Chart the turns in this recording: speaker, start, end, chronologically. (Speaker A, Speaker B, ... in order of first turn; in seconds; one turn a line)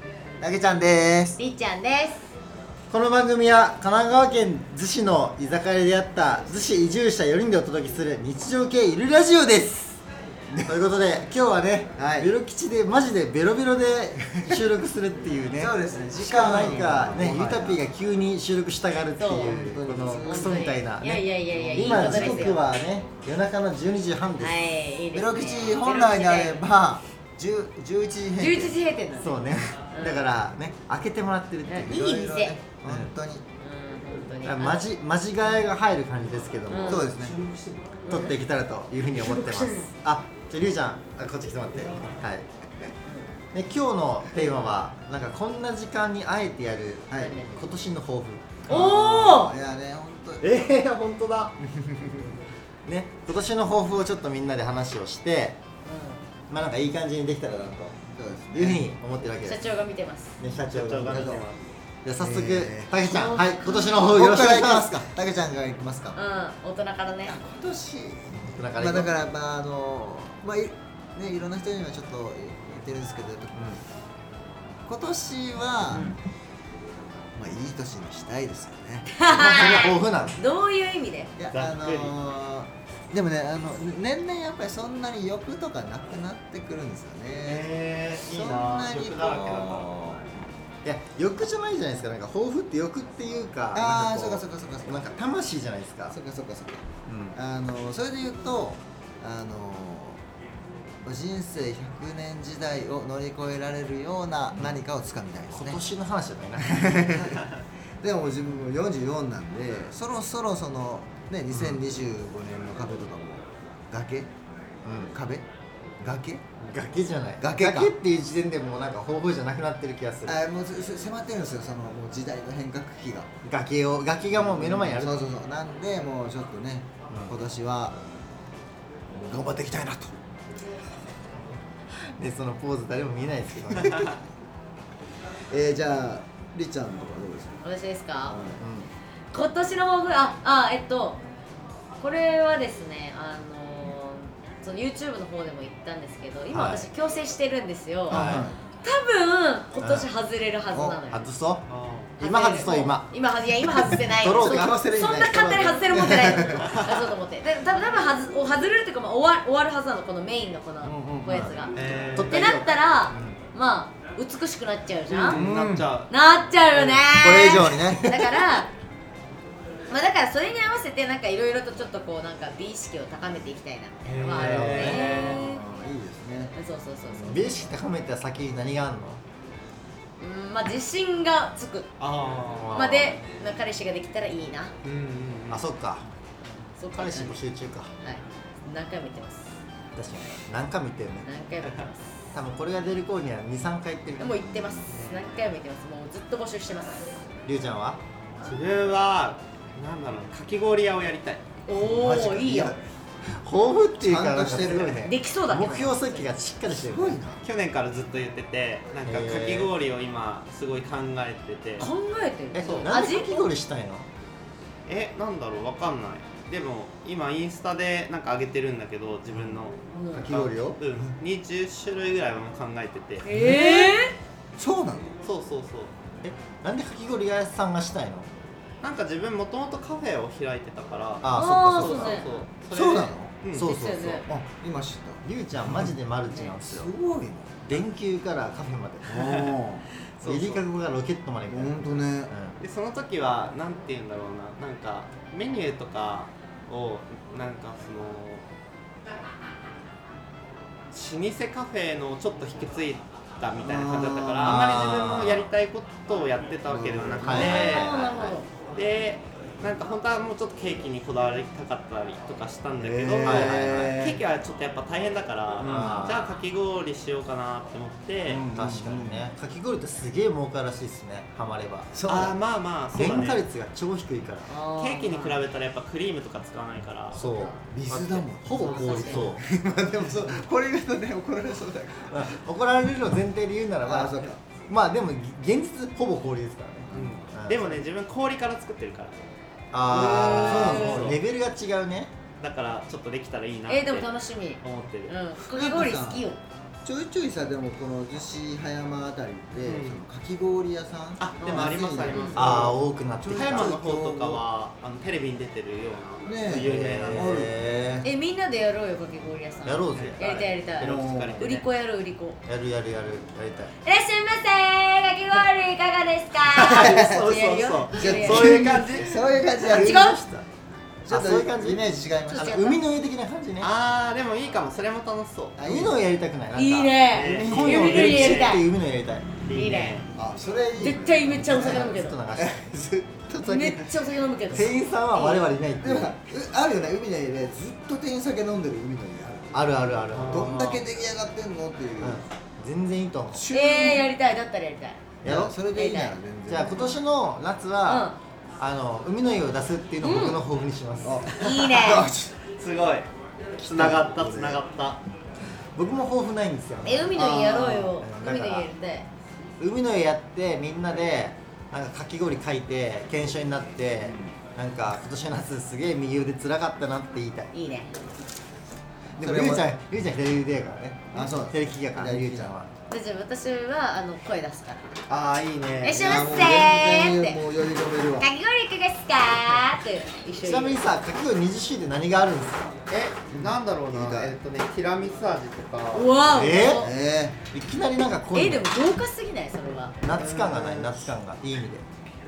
Speaker A: 0.4-1.4
Speaker B: 1.4-2.3
Speaker C: 2.9-10.0
Speaker C: 10.6-24.6
Speaker A: 11.9-12.3
Speaker A: 15.5-17.8
Speaker B: 19.2-22.6
Speaker A: 19.4-20.6
Speaker A: 21.5-22.6
Speaker B: 24.4-26.6
Speaker A: 25.1-28.8
Speaker B: 28.4-30.2
Speaker C: 29.2-32.0
Speaker B: 31.7-32.6
Speaker A: 31.8-33.4
Speaker C: 32.8-33.1
Speaker B: 33.6-34.9
Speaker C: 34.4-37.1
Speaker B: 36.7-37.0
Speaker A: 36.9-37.4
Speaker D: 37.1-38.0
Speaker B: 38.0-38.3
Speaker C: 38.1-42.5
Speaker B: 39.2-39.9
Speaker C: 43.5-49.0
Speaker A: 47.1-47.4
Speaker B: 47.1-47.6
Speaker B: 48.7-49.5
Speaker A: 48.7-50.6
Speaker C: 50.5-51.5
Speaker C: 52.9-55.6
Speaker B: 55.8-56.2
Speaker C: 56.5-58.0
Speaker A: 58.0-58.9
Speaker C: 58.5-59.6
Speaker B: 59.4-60.4
Speaker C: 60.4-61.1
Speaker D: 60.7-61.6
Speaker A: 60.7-61.5
Speaker C: 62.0-65.0
Speaker A: 62.2-63.0
Speaker B: 63.0-64.1
Speaker A: 64.0-66.2
Speaker B: 66.1-67.3
Speaker A: 67.2-68.2
Speaker C: 68.4-69.1
Speaker A: 68.8-73.8
Speaker C: 73.5-73.8
Speaker A: 74.8-76.2
Speaker A: 77.3-79.1
Speaker B: 79.1-81.3
Speaker C: 79.3-80.4
Speaker A: 81.4-87.7
Speaker D: 81.5-82.2
Speaker D: 87.4-89.9
Speaker A: 88.2-90.2
Speaker C: 90.8-96.2
Speaker A: 93.7-95.1
Speaker A: 96.1-100.2
Speaker C: 97.1-97.3
Speaker A: 101.0-105.8
Speaker C: 105.5-107.2
Speaker A: 106.7-107.5
Speaker A: 108.0-114.3
Speaker C: 111.5-111.8
Speaker C: 114.8-115.1
Speaker A: 115.0-115.4
Speaker A: 116.0-116.4
Speaker C: 116.6-120.4
Speaker A: 117.4-117.9
Speaker A: 120.2-123.3
Speaker C: 123.4-125.2
Speaker A: 124.3-128.0
Speaker C: 127.1-127.3
Speaker C: 129.1-130.1
Speaker A: 129.2-129.6
Speaker C: 132.1-134.1
Speaker A: 135.5-137.6
Speaker B: 137.6-138.4
Speaker A: 138.3-138.6
Speaker C: 138.6-138.9
Speaker B: 139.3-141.2
Speaker B: 142.0-151.2
Speaker C: 146.5-146.9
Speaker C: 148.1-148.5
Speaker A: 148.1-148.6
Speaker C: 149.8-150.1
Speaker A: 150.7-151.0
Speaker C: 151.1-151.6
Speaker D: 151.7-152.1
Speaker C: 152.2-153.1
Speaker B: 152.2-161.7
Speaker C: 153.8-156.7
Speaker A: 154.4-156.7
Speaker C: 160.8-163.4
Speaker D: 161.7-162.5
Speaker B: 162.2-165.4
Speaker D: 165.1-166.1
Speaker A: 165.3-165.8
Speaker C: 165.4-165.8
Speaker B: 166.1-168.7
Speaker D: 166.7-167.0
Speaker A: 167.1-168.0
Speaker C: 167.3-168.4
Speaker B: 169.9-175.6
Speaker D: 174.0-175.5
Speaker C: 174.3-175.2
Speaker A: 175.2-176.5
Speaker B: 176.5-177.7
Speaker C: 177.2-179.2
Speaker B: 180.2-181.9
Speaker D: 182.0-182.8
Speaker C: 182.6-183.2
Speaker B: 182.7-184.7
Speaker D: 184.8-185.7
Speaker C: 185.5-186.1
Speaker B: 186.8-187.4
Speaker C: 186.9-187.9
Speaker B: 188.0-189.6
Speaker C: 189.9-191.2
Speaker B: 191.2-192.1
Speaker C: 192.3-194.7
Speaker B: 194.2-197.2
Speaker D: 194.9-195.5
Speaker C: 197.4-198.0
Speaker D: 198.4-201.4
Speaker B: 201.7-202.7
Speaker C: 201.8-202.7
Speaker A: 202.1-202.7
Speaker C: 203.3-207.2
Speaker A: 204.0-205.0
Speaker B: 205.0-206.3
Speaker A: 206.7-207.4
Speaker D: 207.4-211.9
Speaker C: 209.1-209.7
Speaker B: 211.8-213.5
Speaker C: 212.5-214.1
Speaker D: 212.5-212.9
Speaker D: 214.8-223.2
Speaker B: 219.9-220.3
Speaker C: 220.1-220.8
Speaker B: 223.2-224.1
Speaker A: 223.3-223.9
Speaker A: 224.6-225.1
Speaker D: 225.2-225.9
Speaker C: 226.2-228.3
Speaker D: 228.8-233.7
Speaker C: 231.2-232.2
Speaker B: 231.3-232.3
Speaker A: 232.7-233.4
Speaker C: 233.5-234.3
Speaker B: 233.6-234.2
Speaker A: 234.3-235.9
Speaker C: 235.2-236.9
Speaker A: 236.6-237.7
Speaker C: 237.6-239.3
Speaker A: 239.1-239.9
Speaker D: 240.2-240.6
Speaker C: 240.2-242.6
Speaker A: 241.5-242.3
Speaker D: 242.6-248.5
Speaker D: 250.9-257.9
Speaker A: 253.6-254.7
Speaker C: 254.4-255.5
Speaker A: 256.6-257.5
Speaker C: 257.2-258.4
Speaker B: 257.3-258.5
Speaker D: 258.7-268.5
Speaker A: 262.8-264.2
Speaker C: 263.2-264.0
Speaker A: 265.6-266.1
Speaker C: 265.6-266.3
Speaker A: 268.3-269.3
Speaker C: 268.3-271.9
Speaker A: 271.9-272.3
Speaker D: 272.1-273.4
Speaker C: 272.9-274.5
Speaker B: 274.5-275.4
Speaker D: 274.8-277.2
Speaker C: 277.1-277.6
Speaker B: 277.1-277.5
Speaker A: 277.6-282.4
Speaker D: 277.9-278.3
Speaker C: 278.3-279.4
Speaker B: 278.5-279.3
Speaker C: 282.1-287.8
Speaker A: 283.8-284.4
Speaker A: 286.9-287.2
Speaker D: 286.9-289.1
Speaker C: 289.7-292.1
Speaker D: 289.9-291.2
Speaker B: 290.5-291.1
Speaker D: 292.4-294.1
Speaker B: 293.7-296.4
Speaker D: 294.6-295.1
Speaker A: 295.4-296.3
Speaker A: 296.8-304.4
Speaker D: 299.6-300.0
Speaker D: 301.2-307.4
Speaker B: 302.1-302.4
Speaker C: 302.3-303.8
Speaker A: 306.2-308.1
Speaker C: 306.5-307.8
Speaker B: 308.0-312.4
Speaker C: 309.6-310.2
Speaker D: 309.9-311.6
Speaker A: 310.8-311.6
Speaker C: 312.4-313.7
Speaker B: 313.8-318.5
Speaker D: 316.4-319.2
Speaker A: 316.7-317.1
Speaker A: 317.9-320.1
Speaker C: 319.7-320.4
Speaker B: 319.7-320.2
Speaker A: 321.0-322.5
Speaker C: 321.0-323.7
Speaker B: 322.3-322.8
Speaker D: 323.6-325.6
Speaker A: 325.6-326.0
Speaker C: 325.6-329.3
Speaker B: 326.5-328.7
Speaker D: 327.1-328.6
Speaker A: 327.3-327.7
Speaker D: 329.4-330.1
Speaker B: 329.5-330.0
Speaker A: 330.1-333.3
Speaker B: 330.8-332.2
Speaker C: 331.3-332.5
Speaker C: 333.3-333.9
Speaker B: 333.4-335.4
Speaker C: 334.5-336.1
Speaker A: 335.8-339.7
Speaker C: 339.5-340.5
Speaker D: 340.1-340.8
Speaker A: 340.2-342.2
Speaker C: 342.0-343.4
Speaker A: 343.3-344.1
Speaker B: 343.5-345.0
Speaker C: 345.2-345.5
Speaker A: 345.2-346.9
Speaker B: 345.7-346.1
Speaker C: 346.5-351.3
Speaker B: 347.9-348.2
Speaker B: 350.0-350.4
Speaker A: 351.0-352.3
Speaker B: 351.3-352.1
Speaker D: 352.4-355.0
Speaker C: 353.6-354.6
Speaker C: 355.7-358.7
Speaker B: 356.8-359.1
Speaker C: 359.6-367.5
Speaker A: 364.0-364.3
Speaker B: 367.5-367.9
Speaker C: 369.2-372.7
Speaker A: 369.2-369.7
Speaker A: 371.1-372.6
Speaker B: 372.9-374.8
Speaker D: 375.1-376.4
Speaker B: 375.8-377.4
Speaker A: 376.0-378.3
Speaker B: 378.2-380.9
Speaker C: 380.4-382.8
Speaker D: 382.9-386.3
Speaker A: 383.3-384.3
Speaker B: 385.9-386.9
Speaker C: 386.3-386.9
Speaker A: 386.8-387.4
Speaker C: 387.5-388.7
Speaker B: 388.3-389.9
Speaker C: 390.0-391.8
Speaker D: 390.1-391.1